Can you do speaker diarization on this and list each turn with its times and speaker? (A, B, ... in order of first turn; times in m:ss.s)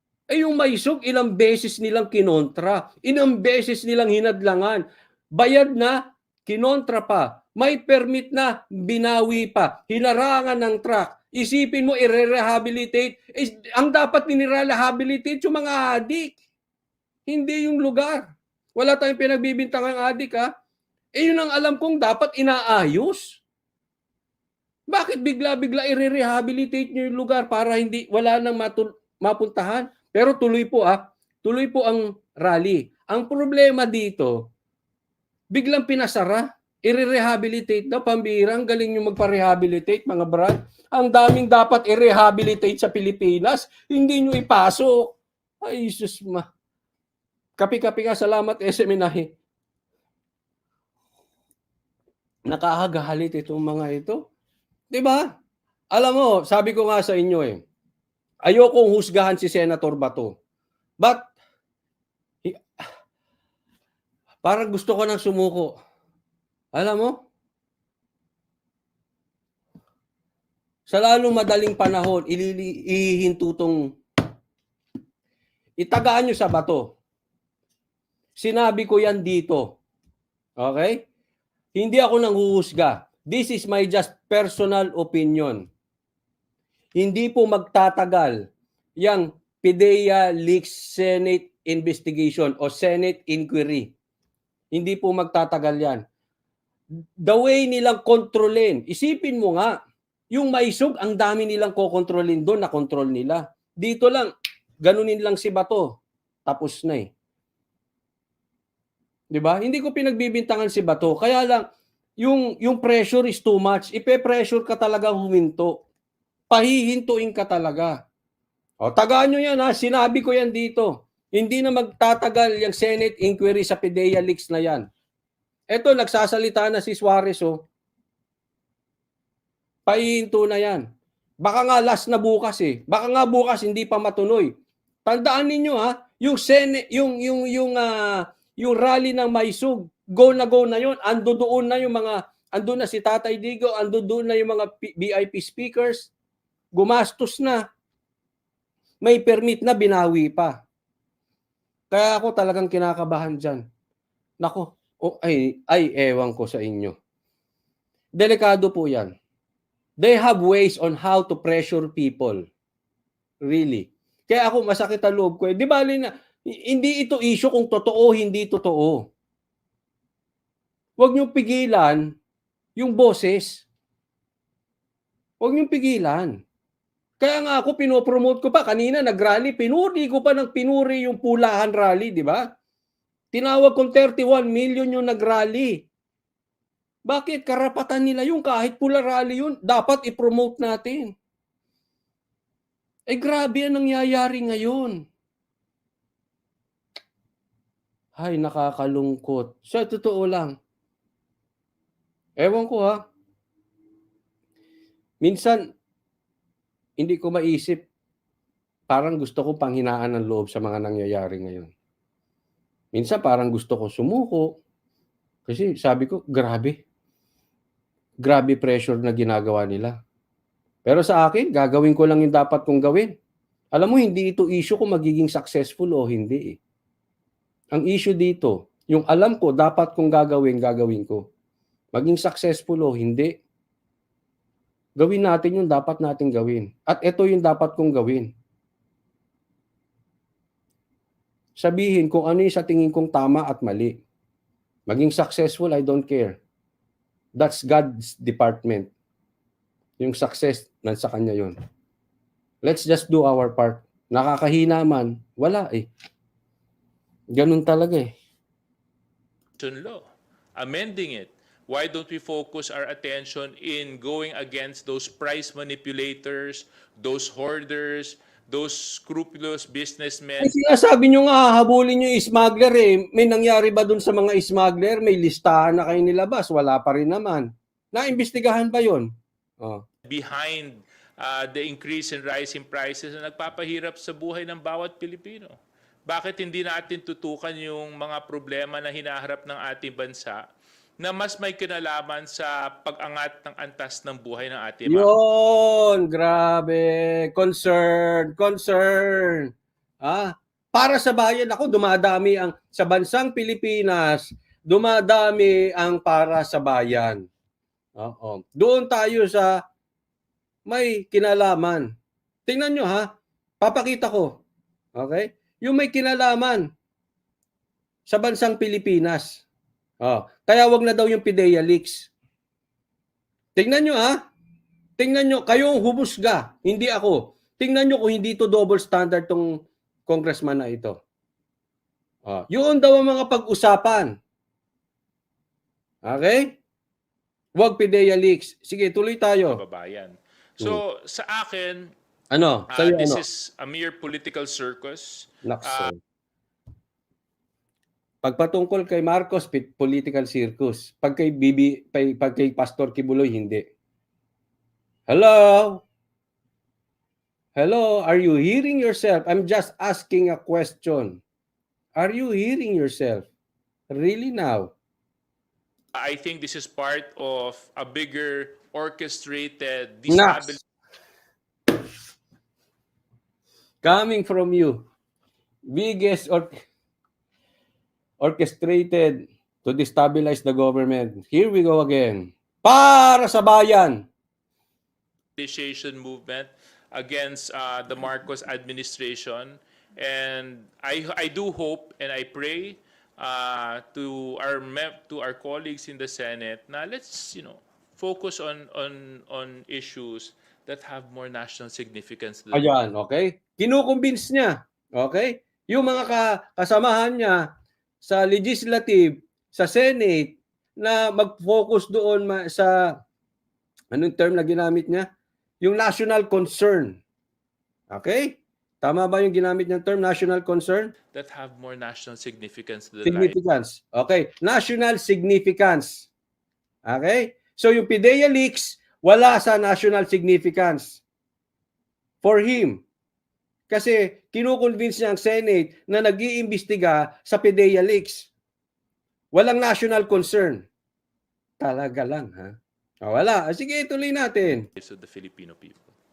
0:00.3-0:04.8 A
0:05.4-0:16.4 A
0:17.3-0:18.2 A
0:18.8-0:20.5 A
0:21.2-0:23.4 A
0:24.9-0:34.4 A
0:35.5-0:46.4 A
0:47.6-0:49.3 A
0:52.5-0:54.2 A
0:54.9-0:55.2 A
0:55.9-0:57.6 A
0:58.5-1:00.3 A
1:01.0-1:01.3 A
1:04.4-1:05.7 A
1:06.7-1:07.1 A
1:10.9-1:13.8 A
1:15.8-1:16.9 A
1:18.4-1:19.8 A
1:20.6-1:21.0 A
1:21.7-1:25.6 A
1:27.0-1:28.4 A
1:29.0-1:33.9 A
1:34.7-1:36.0 A
1:37.2-1:39.7 A
1:40.3-1:44.3 A
1:44.8-1:45.9 A
1:46.5-1:47.1 A
1:49.3-1:51.6 A
1:52.2-1:55.8 A
1:56.5-1:57.9 A
1:58.8-2:04.8 A
2:05.7-2:07.6 A
2:09.9-2:10.8 A
2:11.4-2:14.5 A
2:15.0-2:17.9 A
2:18.6-2:26.1 A
2:26.7-2:27.6 A
2:29.0-2:30.5 A
2:31.9-2:33.6 A
2:34.4-2:36.9 A
2:38.2-2:39.1 A
2:40.0-2:42.4 A
2:43.4-2:49.0 A
2:51.0-2:52.0 A
2:52.8-2:53.6 A
2:55.4-2:56.3 A
2:57.2-3:02.4 A
3:03.3-3:05.9 A
3:07.1-3:11.1 A
3:13.1-3:15.0 A
3:18.2-3:20.5 A
3:22.4-3:23.0 A
3:25.2-3:25.6 A
3:27.0-3:27.8 A
3:28.9-3:31.7 A
3:32.9-3:34.5 A
3:35.5-3:36.8 A
3:38.2-3:39.9 A
3:40.8-3:43.1 A
3:43.7-3:46.6 A
3:47.7-3:51.2 A
3:51.9-3:53.3 A
3:55.0-3:58.3 A
4:01.6-4:04.0 A
4:04.9-4:06.4 A
4:07.4-4:08.9 A
4:10.0-4:11.5 A
4:12.6-4:15.9 A
4:17.3-4:18.1 A
4:19.6-4:20.0 B
4:20.6-4:30.5 B
4:30.4-4:39.0 A
4:40.1-4:45.6 B
4:46.1-4:50.4 B
4:51.0-4:55.1 B
4:54.9-4:59.5 A
5:00.0-5:07.2 A
5:08.0-5:09.6 A
5:10.7-5:11.9 A
5:12.5-5:13.1 A
5:13.6-5:14.3 A
5:15.0-5:16.6 A
5:18.1-5:19.4 A
5:20.0-5:22.1 A
5:23.6-5:24.2 A
5:25.0-5:29.5 A
5:30.1-5:31.0 A
5:32.2-5:34.1 A
5:36.0-5:36.5 A
5:37.6-5:39.6 A
5:39.5-5:41.9 B
5:42.3-5:43.2 A
5:42.7-5:45.9 B
5:45.4-5:45.9 A
5:48.2-5:53.6 A
5:55.1-5:55.8 A
5:57.6-6:01.2 A
6:02.0-6:03.3 A
6:03.9-6:04.7 A
6:05.9-6:10.6 B
6:10.1-6:10.6 A
6:13.8-6:14.8 A
6:15.7-6:16.5 A
6:18.2-6:24.0 A
6:25.4-6:42.7 B
6:42.5-6:47.4 A
6:48.0-6:52.7 A
6:53.9-6:55.0 A
6:55.6-6:57.0 A
6:57.9-7:00.9 A
7:01.1-7:03.4 B
7:03.0-7:06.1 A
7:06.9-7:11.0 A
7:12.2-7:12.8 A
7:13.7-7:18.3 A
7:19.3-7:20.6 A
7:21.6-7:22.5 A
7:23.0-7:24.6 A
7:24.8-7:25.9 B